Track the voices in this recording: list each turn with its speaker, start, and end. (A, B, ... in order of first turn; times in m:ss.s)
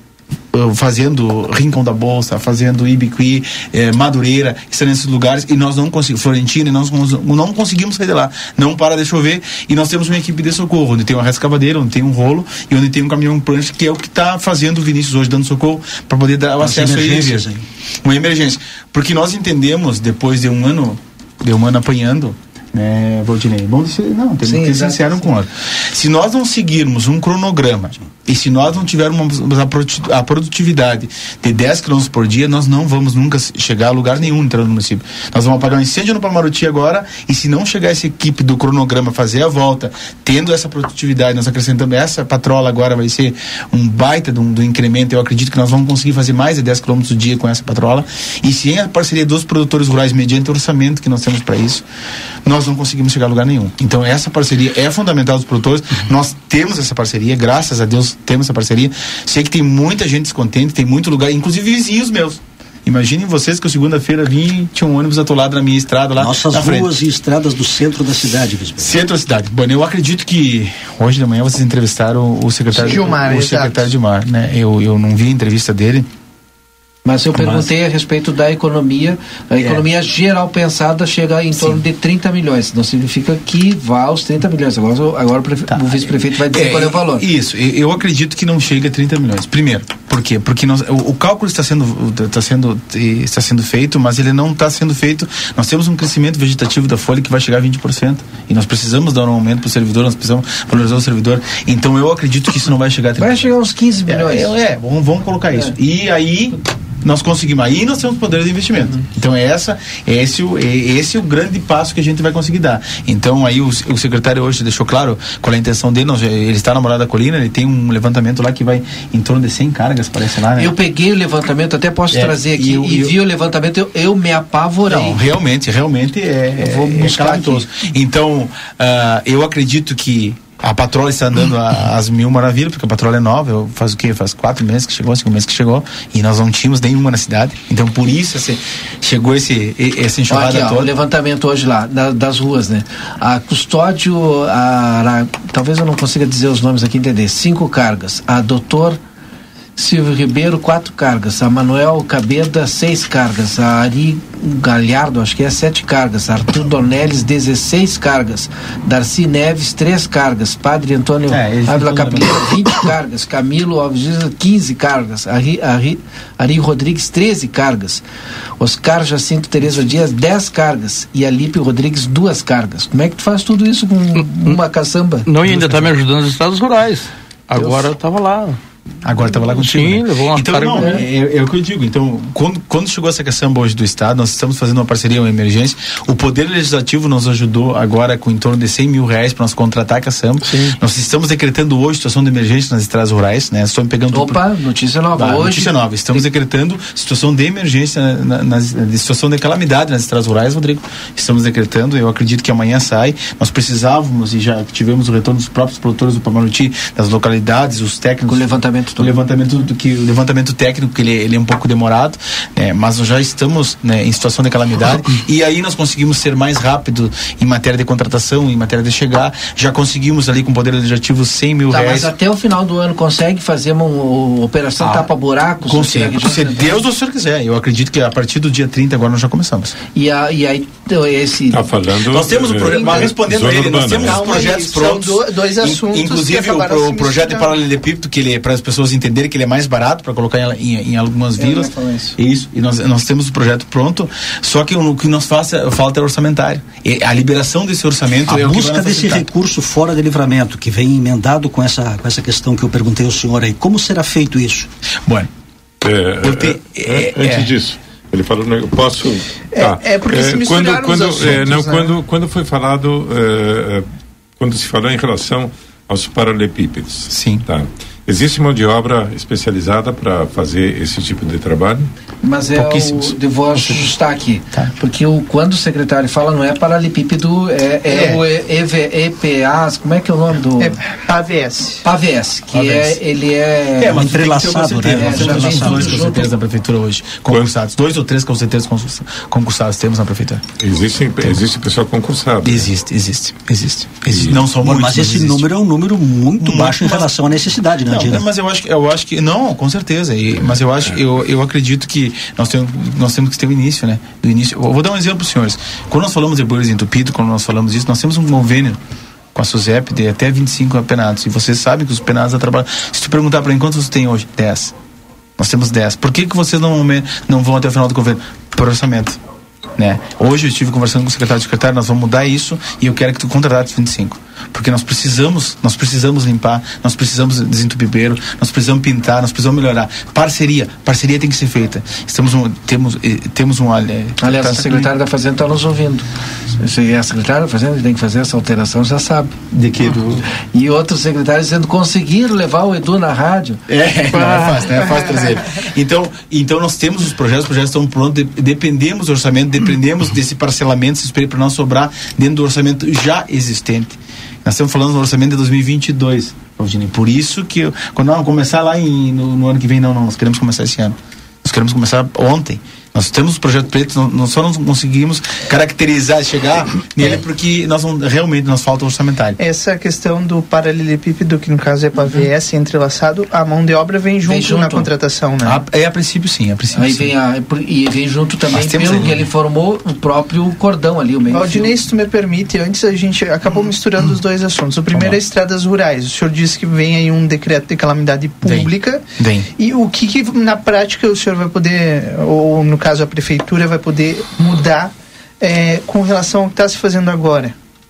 0:00.5-0:17.5 A
0:16.6-0:17.6 B
0:18.0-0:51.8 A
0:24.4-0:25.2 C
0:52.4-1:06.9 A
1:06.2-1:08.9 B
1:08.8-1:16.1 A
1:12.8-1:13.8 D
1:17.0-1:27.2 C
1:17.4-1:17.6 A
1:19.6-1:19.8 A
1:25.7-1:43.5 A
1:43.2-1:44.5 C
1:44.0-2:00.7 A
2:00.6-2:05.2 C
2:02.1-2:03.2 A
2:04.9-2:20.9 A
2:06.6-2:07.6 C
2:20.3-2:29.0 C
2:29.8-2:48.0 C
2:41.3-2:42.6 A
2:48.6-2:55.9 C
2:55.3-2:58.6 E
2:57.6-2:57.9 C
2:59.0-3:14.4 A
2:59.3-3:01.0 E
3:00.7-3:01.0 C
3:14.1-3:16.2 C
3:15.1-3:42.1 A
3:28.3-3:29.1 C
3:41.7-3:46.8 C
3:44.8-3:45.1 A
3:45.6-3:49.8 A
3:49.9-3:51.6 C
3:51.5-3:54.3 F
3:52.1-4:09.3 A
3:52.6-3:53.1 D
3:53.9-3:57.5 D
4:01.4-4:02.2 C
4:08.3-4:14.7 B
4:15.8-4:23.8 F
4:16.2-4:17.5 A
4:19.5-4:21.9 D
4:24.4-4:31.9 F
4:27.1-4:27.4 A
4:32.2-4:40.8 C
4:32.5-4:33.9 A
4:37.9-4:38.2 A
4:40.6-4:41.8 D
4:41.8-4:44.1 C
4:42.5-4:43.0 A
4:43.8-4:50.4 A
4:43.9-4:46.0 B
4:44.9-4:46.3 C
4:47.3-4:47.5 F
4:50.6-4:52.7 F
4:52.4-4:55.4 A
4:54.1-4:54.4 F
4:54.6-4:58.2 B
4:56.4-4:57.1 A
4:57.8-5:08.8 A
5:09.3-5:14.7 A
5:15.4-5:19.2 A
5:19.8-5:34.9 A
5:34.2-5:36.0 C
5:36.6-5:39.4 C
5:39.5-5:40.3 A
5:40.5-5:43.6 C
5:43.7-6:09.4 A
5:44.1-5:44.7 C
6:09.4-6:15.6 D
6:14.2-6:14.9 C
6:15.4-6:17.1 A
6:16.7-6:21.7 C
6:18.5-6:19.2 A
6:21.3-6:29.0 D
6:24.9-6:25.2 A
6:28.4-6:29.5 A
6:29.6-6:37.5 D